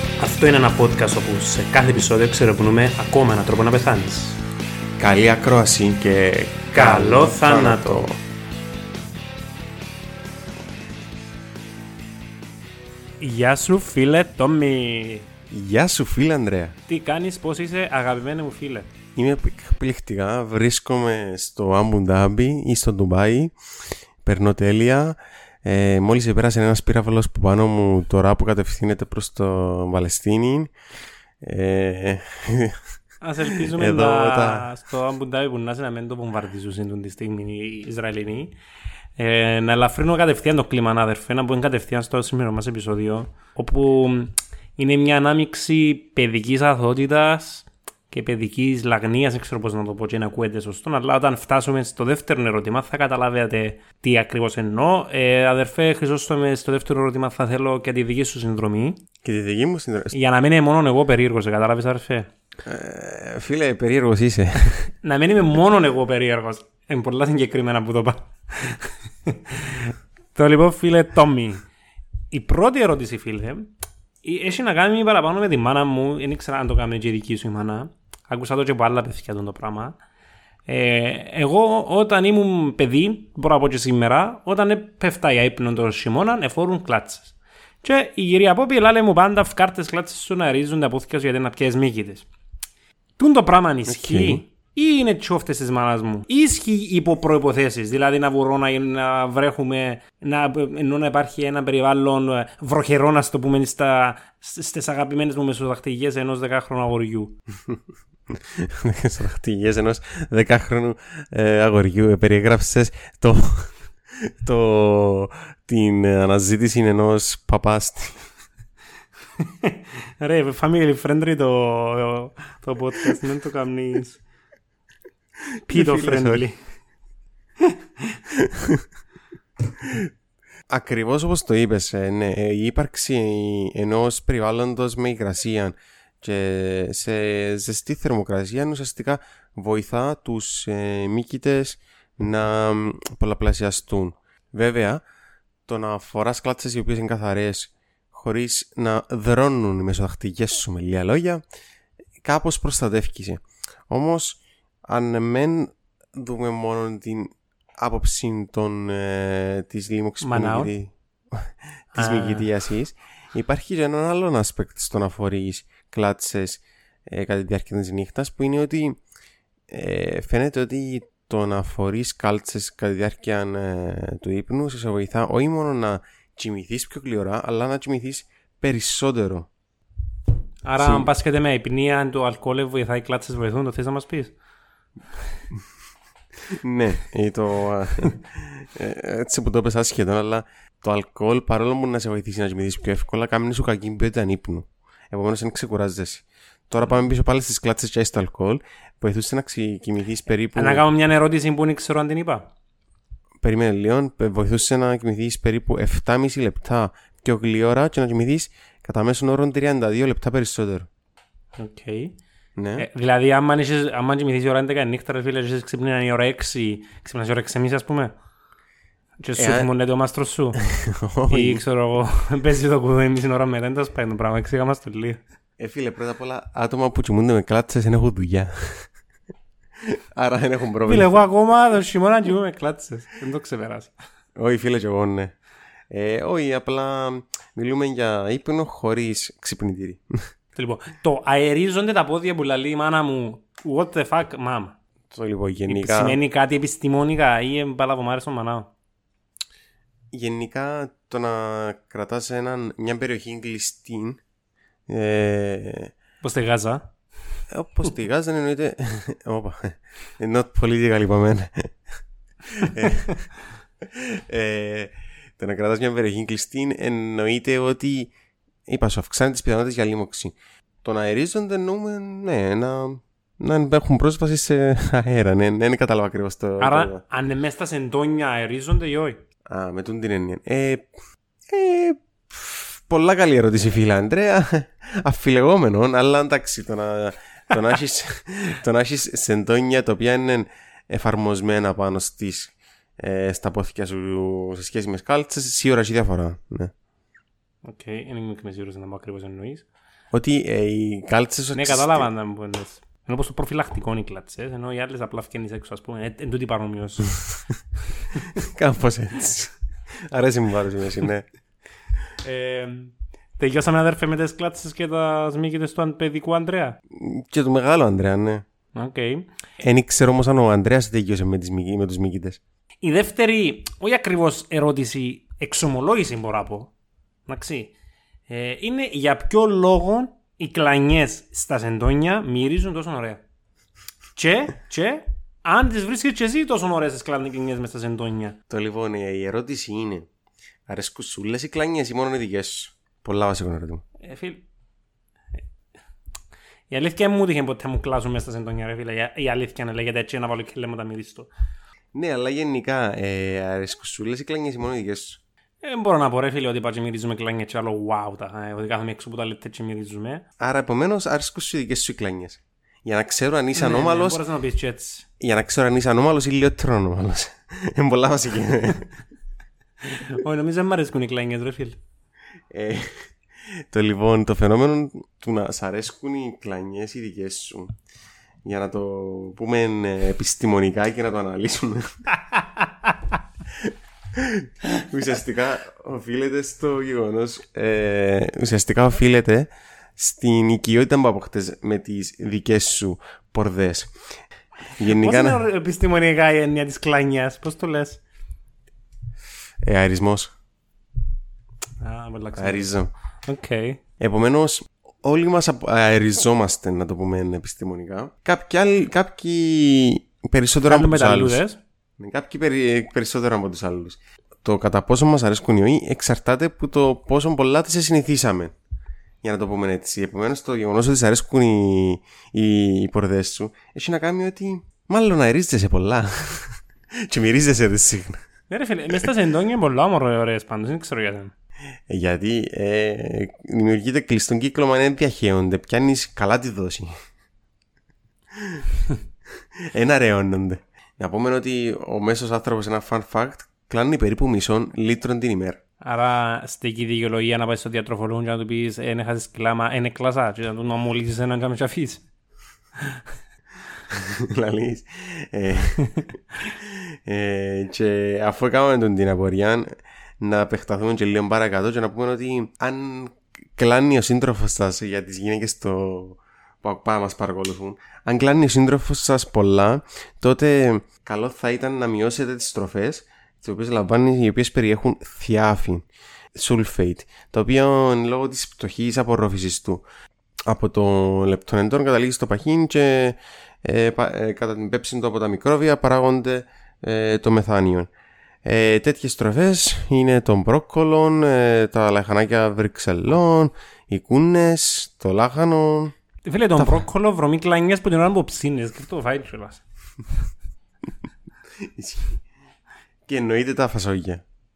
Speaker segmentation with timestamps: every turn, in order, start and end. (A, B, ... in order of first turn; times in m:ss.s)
0:00.2-0:04.4 A
0:05.0-0:08.2 B
0:06.7-0:08.1 A
0:13.2-0:15.3 A
0:15.5-0:16.8 B
0:16.9-0:18.9 A
0:19.2-0:23.6 B
0:24.2-0:30.7 B
0:31.4-0:32.8 B
0:33.2-0:38.6 A
0:33.7-0:34.7 B
0:39.2-0:59.0 A
0:59.2-1:00.2 B
1:00.1-1:02.3 A
1:02.6-1:04.9 B
1:05.0-1:11.6 A
1:12.3-1:20.0 A
1:20.7-1:32.3 A
1:33.2-1:47.4 A
1:33.9-1:34.4 B
1:48.3-1:53.7 B
1:54.3-1:58.2 B
1:59.4-2:04.2 A
2:05.7-2:06.4 B
2:05.7-2:06.6 A
2:08.4-2:08.8 B
2:10.7-2:25.0 B
2:25.7-2:31.4 B
2:32.2-2:49.0 B
2:40.2-2:40.7 A
2:41.9-2:42.5 A
2:49.7-2:59.5 B
3:00.6-3:04.4 A
3:00.8-3:01.1 B
3:06.6-3:20.8 B
3:20.6-3:22.5 A
3:23.4-3:30.9 B
3:31.6-3:32.2 A
3:32.6-3:32.9 B
3:32.8-3:38.2 A
3:39.2-3:40.6 A
3:39.4-3:39.7 B
3:41.0-3:41.6 B
3:41.3-3:45.2 A
3:45.6-3:48.9 B
3:49.8-3:51.1 B
3:50.9-3:53.9 A
3:54.4-3:55.3 B
3:55.9-4:00.0 B
4:00.6-4:04.8 A
4:05.1-4:06.2 B
4:05.7-4:08.7 A
4:10.1-4:14.2 B
4:14.9-4:15.9 B
4:16.2-4:16.9 A
4:17.5-4:21.8 B
4:22.6-4:23.2 B
4:23.9-4:28.1 B
4:28.7-4:37.0 B
4:36.6-4:39.2 A
4:39.5-4:40.9 B
4:41.5-4:56.7 B
4:57.6-4:59.6 A
5:00.1-5:02.1 B
5:01.5-5:07.2 A
5:08.5-5:09.5 B
5:10.1-5:11.3 B
5:12.2-5:16.8 A
5:16.9-5:18.4 B
5:18.7-5:19.3 A
5:19.6-5:22.4 B
5:22.8-5:26.7 A
5:27.3-5:27.7 A
5:28.3-5:33.2 A
5:34.2-5:38.4 A
5:38.5-5:40.1 B
5:40.7-5:43.8 B
5:44.0-5:44.4 A
5:46.7-5:51.3 A
5:51.9-5:55.2 B
5:55.6-6:00.2 A
6:00.4-6:04.2 B
6:03.5-6:05.1 A
6:05.2-6:08.9 B
6:09.8-6:11.8 A
6:12.5-6:13.0 B
6:13.7-6:17.7 B
6:18.4-6:22.0 B
6:22.3-6:22.9 A
6:23.6-6:33.9 B
6:34.8-6:35.4 B
6:34.8-6:38.0 A
6:39.6-6:40.3 B
6:41.8-6:42.7 A
6:42.4-6:42.9 B
6:43.2-6:43.8 A
6:44.0-6:51.4 B
6:50.7-6:51.6 A
6:52.0-6:58.5 B
6:59.2-7:08.2 B
7:08.5-7:11.3 A
7:11.9-7:16.9 B
7:19.7-7:25.6 B
7:25.8-7:32.0 A
7:33.9-7:59.8 B
8:00.5-8:07.9 B
8:08.4-8:15.9 B
8:16.2-8:19.6 A
8:16.6-8:16.8 B
8:21.8-8:22.2 B
8:23.1-8:24.2 B